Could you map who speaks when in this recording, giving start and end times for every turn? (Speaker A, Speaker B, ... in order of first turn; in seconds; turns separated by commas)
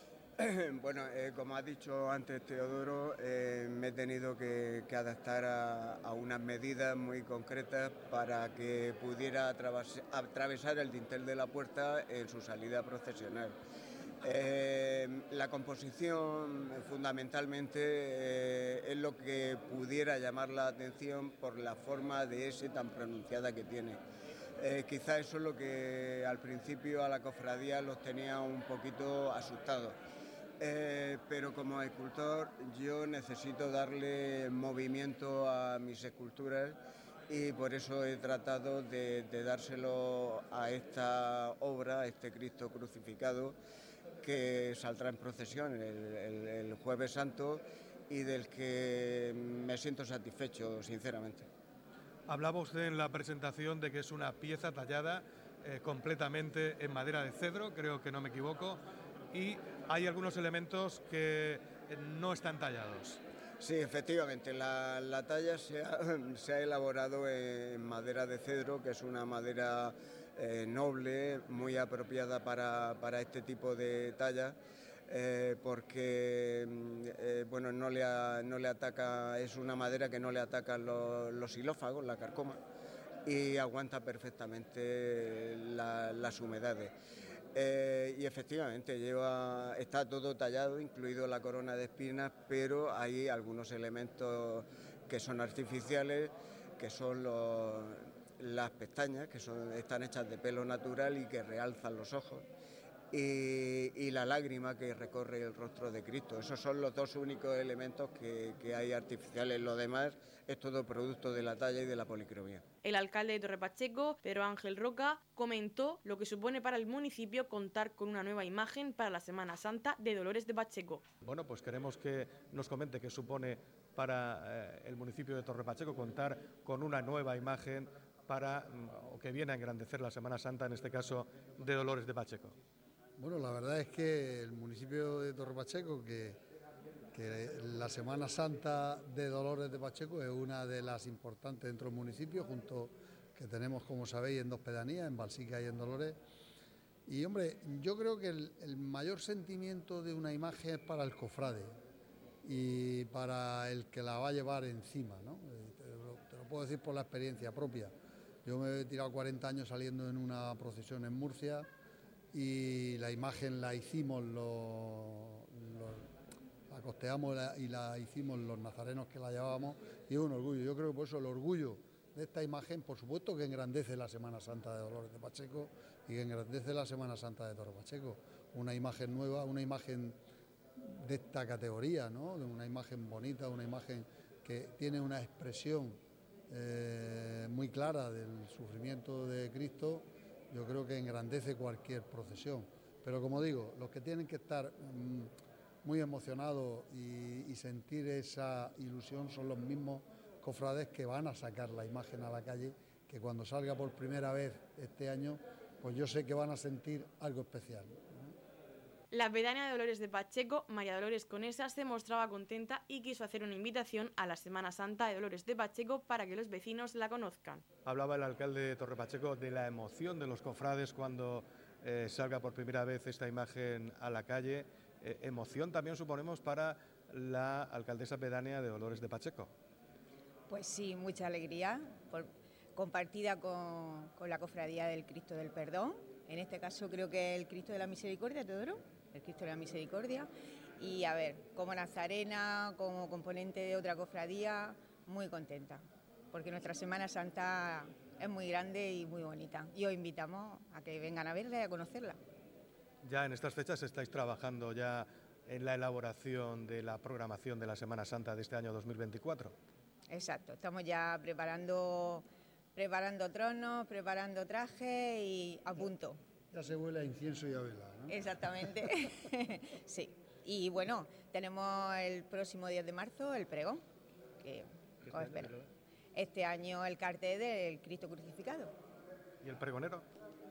Speaker A: 0.4-13.6, Speaker A: 14.2-24.0, Speaker A: 24.6-30.0, Speaker A: 30.6-43.6, Speaker A: 44.2-51.5, Speaker B: 52.3-58.8, Speaker B: 59.3-63.2, Speaker A: 63.6-74.6, Speaker A: 75.1-82.6, Speaker A: 83.2-86.9, Speaker A: 87.5-102.5, Speaker A: 103.1-112.7, Speaker C: 112.8-121.0, Speaker B: 121.2-132.6, Speaker D: 133.2-136.4, Speaker D: 137.1-146.2, Speaker D: 147.1-151.8, Speaker D: 152.4-161.7, Speaker D: 162.3-166.1, Speaker D: 166.7-180.2, Speaker D: 180.8-195.3, Speaker D: 195.8-208.3, Speaker C: 209.1-217.6, Speaker B: 217.8-229.5, Speaker E: 230.5-252.2, Speaker B: 253.0-259.6, Speaker E: 260.1-266.2, Speaker D: 266.5-268.8, Speaker E: 268.1-273.8, Speaker E: 274.4-275.6, Speaker B: 275.1-275.6, Speaker E: 276.1-278.7, Speaker B: 279.4-280.1